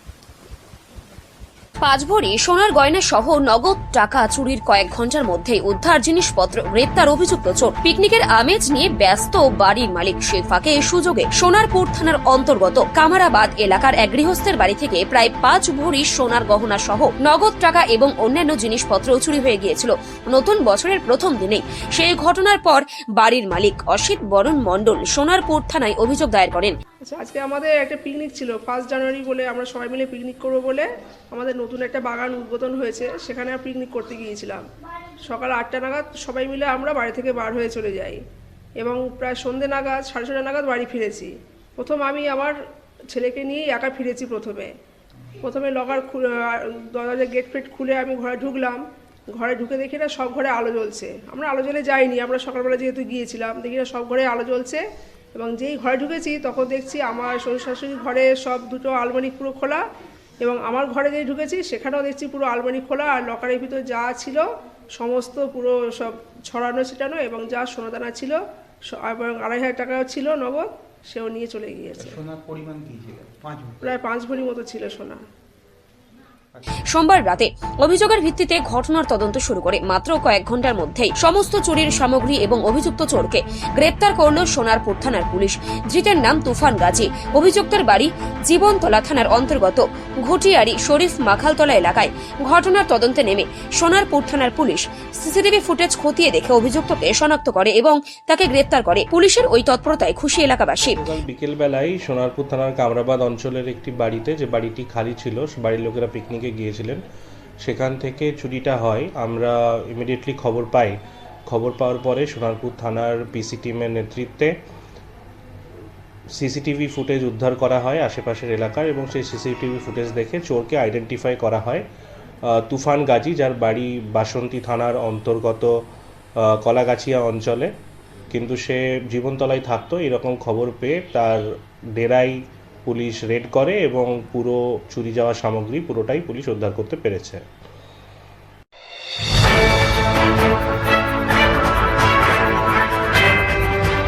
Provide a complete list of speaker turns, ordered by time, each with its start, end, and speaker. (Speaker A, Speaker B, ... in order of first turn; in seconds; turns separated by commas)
Speaker A: 1.8-26.8, Speaker B: 27.1-34.6, Speaker B: 35.3-38.2, Speaker B: 38.8-42.5, Speaker B: 43.1-44.7, Speaker B: 45.4-48.8, Speaker B: 49.3-54.8, Speaker B: 55.3-59.8, Speaker B: 60.4-64.4, Speaker B: 65.0-68.4, Speaker B: 68.9-72.2, Speaker C: 72.0-74.0, Speaker B: 73.8-75.2, Speaker A: 76.9-101.0, Speaker D: 100.8-107.0, Speaker D: 107.6-111.0, Speaker D: 111.5-114.5, Speaker D: 116.4-121.8, Speaker D: 122.5-125.7, Speaker D: 126.4-127.7, Speaker D: 128.3-131.4, Speaker D: 132.0-137.4